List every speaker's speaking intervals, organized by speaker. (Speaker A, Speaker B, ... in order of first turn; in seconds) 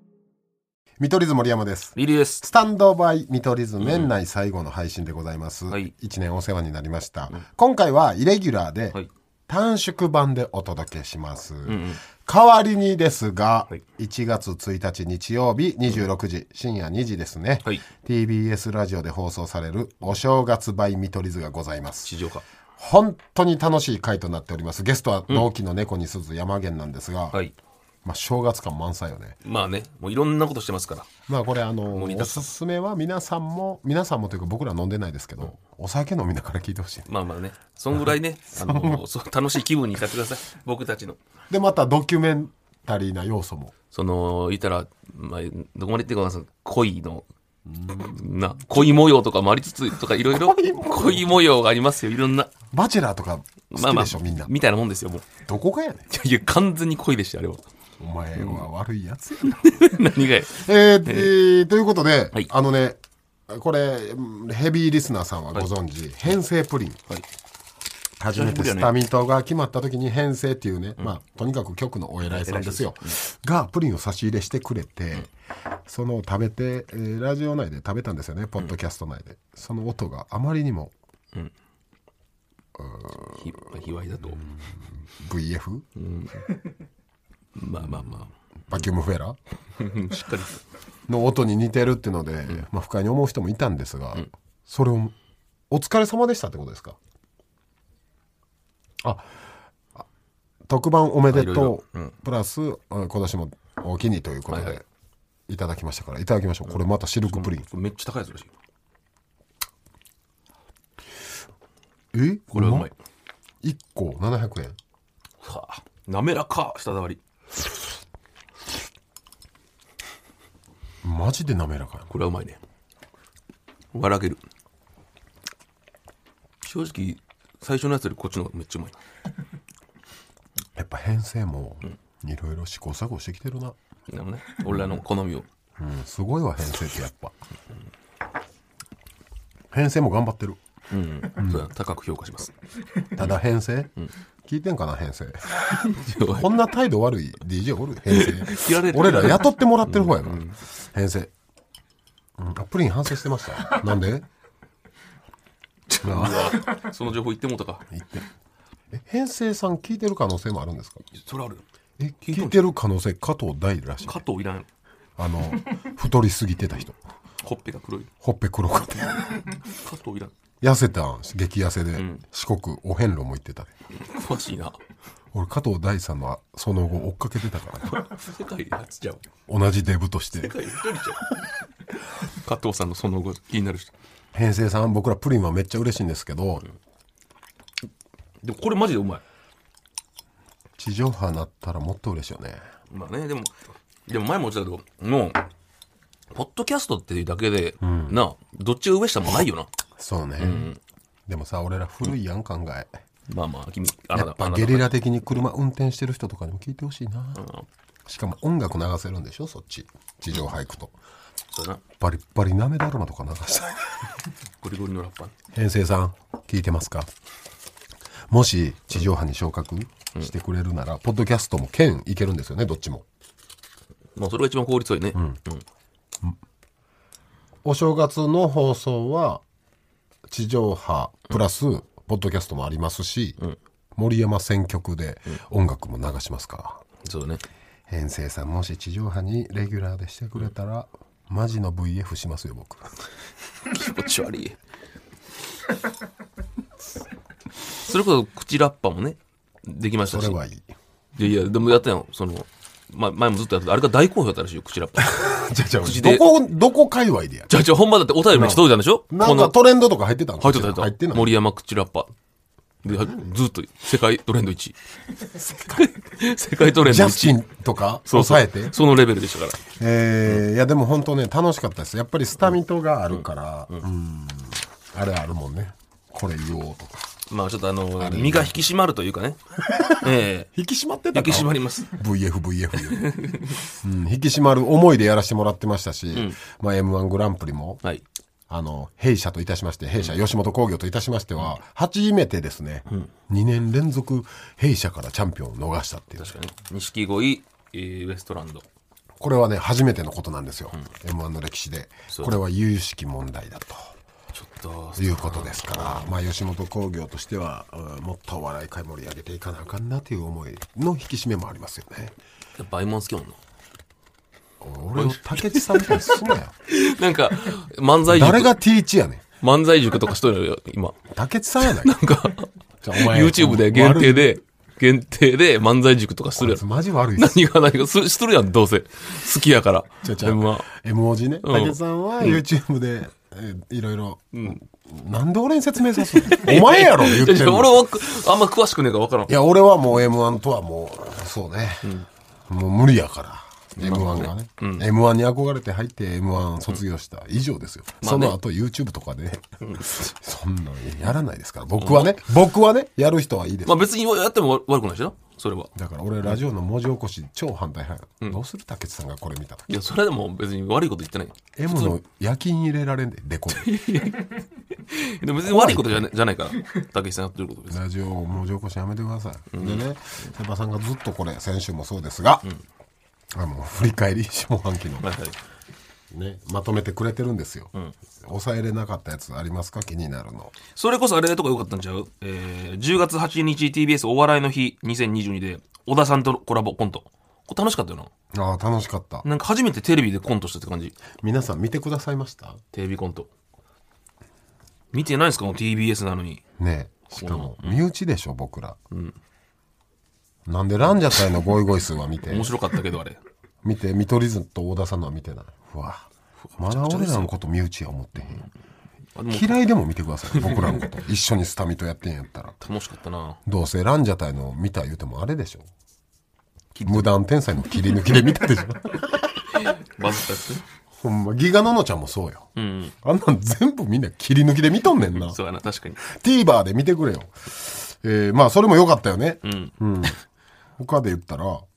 Speaker A: 1.0-22.1, 22.8-27.4, 28.1-29.4, 31.3-37.1, 38.5-39.0, 41.5-43.7, 47.7-48.1, 48.7-49.0, 50.2-51.3, 52.7-54.5, 55.5-56.1, 58.0-59.8, 60.5-67.0, 68.2-75.3, 75.9-80.9, 82.8-83.4, 84.2-85.8, 87.8-89.4, 91.1-95.1, 95.7-97.0, 99.0-99.3, 100.7-104.8, 105.5-107.7, 112.1-112.9, 113.6-114.8, 121.0-122.1, 130.8-133.8, 135.8-137.3, 139.7-140.6, 141.3-141.7, 143.2-143.9, 144.4-145.6, 146.2-151.3, 152.4-154.3, 156.0-156.7, 157.9-158.3, 158.9-161.0, 162.0-164.2, 165.2-167.0, 168.2-169.4, 170.6-173.7, 175.3-178.1, 179.5-180.6, 184.3-186.7, 190.8-192.6, 197.8-198.2, 200.0-200.7, 201.3-202.9, 204.1-207.4, 208.1-210.9, 212.0-213.8, 215.5-217.1, 218.3-223.1, 225.1-225.4, 227.7-229.4, 230.3-233.4, 234.0-236.8, 237.9-242.8, 250.1-250.7, 255.1-257.5, 258.3-261.4, 262.9-263.2, 265.3-265.9, 266.8-268.8, 269.7-277.0, 278.0-278.6, 279.7-283.1, 283.7-287.8, 288.5-296.4, 299.2-303.9, 305.0-312.1, 314.6-316.5, 318.1-319.2, 321.1-322.0, 322.8-324.4, 326.4-327.4, 330.0-337.8, 339.3-341.9, 342.5-353.9, 355.8-359.8, 361.6-363.7, 365.4-366.1, 367.7-372.5, 373.3-375.1, 376.1-377.7, 378.2-380.5, 388.3-389.3, 391.2-392.6, 396.6-398.8, 400.5-402.6, 403.6-408.5, 409.3-412.6, 413.5-415.7, 416.9-419.6, 421.0-422.5, 423.0-425.4, 426.0-430.2, 430.8-431.6
Speaker B: 2.0-2.5, 3.8-4.2, 11.7-12.0, 22.0-22.4, 29.4-31.1, 31.9-32.5, 37.1-41.2, 43.9-47.3, 47.9-52.5, 53.7-55.3, 56.1-57.6, 58.4-58.7, 59.4-61.3, 68.3-69.0, 72.2-73.2, 83.2-84.4, 86.0-86.5, 87.6-88.9, 89.8-90.6, 101.3-102.2, 104.5-104.8, 106.7-108.5, 112.5-112.9, 115.4-117.2, 122.1-122.6, 123.9-124.4, 126.6-129.0, 134.1-135.5, 140.9-142.5, 145.7-146.5, 148.1-150.6, 155.9-157.9, 161.1-161.6, 162.2-162.6, 164.0-164.7, 167.4-168.1, 169.7-170.3, 171.9-172.2, 173.9-174.8, 177.9-179.3, 180.3-181.4, 182.2-183.9, 188.4-189.2, 192.9-193.5, 194.1-195.4, 196.3-199.7, 200.4-200.8, 203.3-205.0, 207.3-207.7, 211.5-211.8, 214.6-215.3, 224.2-225.6, 237.0-237.4, 243.7-244.6, 247.8-250.4, 251.2-256.3, 257.5-259.6, 260.4-262.1, 262.8-264.8, 265.7-267.4, 268.1-269.7, 273.1-273.9, 277.3-280.5, 281.1-282.0, 282.8-283.6, 286.1-286.4, 296.2-298.6, 302.1-302.4, 304.3-306.1, 312.6-313.4, 314.9-318.6, 319.4-321.0, 321.6-326.6, 327.1-330.7, 331.4-332.4, 334.3-334.6, 336.1-339.4, 343.8-344.9, 348.0-348.4, 349.6-349.9, 351.8-352.2, 353.6-355.7, 359.7-362.0, 363.5-367.8, 369.5-370.3, 375.0-375.4, 380.7-388.1, 389.2-391.0, 392.7-393.3, 394.9-396.4, 397.1-397.8, 402.2-403.2, 406.4-407.3, 409.1-409.6, 410.3-410.9, 412.6-413.4, 416.8-417.1, 419.6-420.6, 422.6-422.9, 425.1-426.0, 429.4-430.1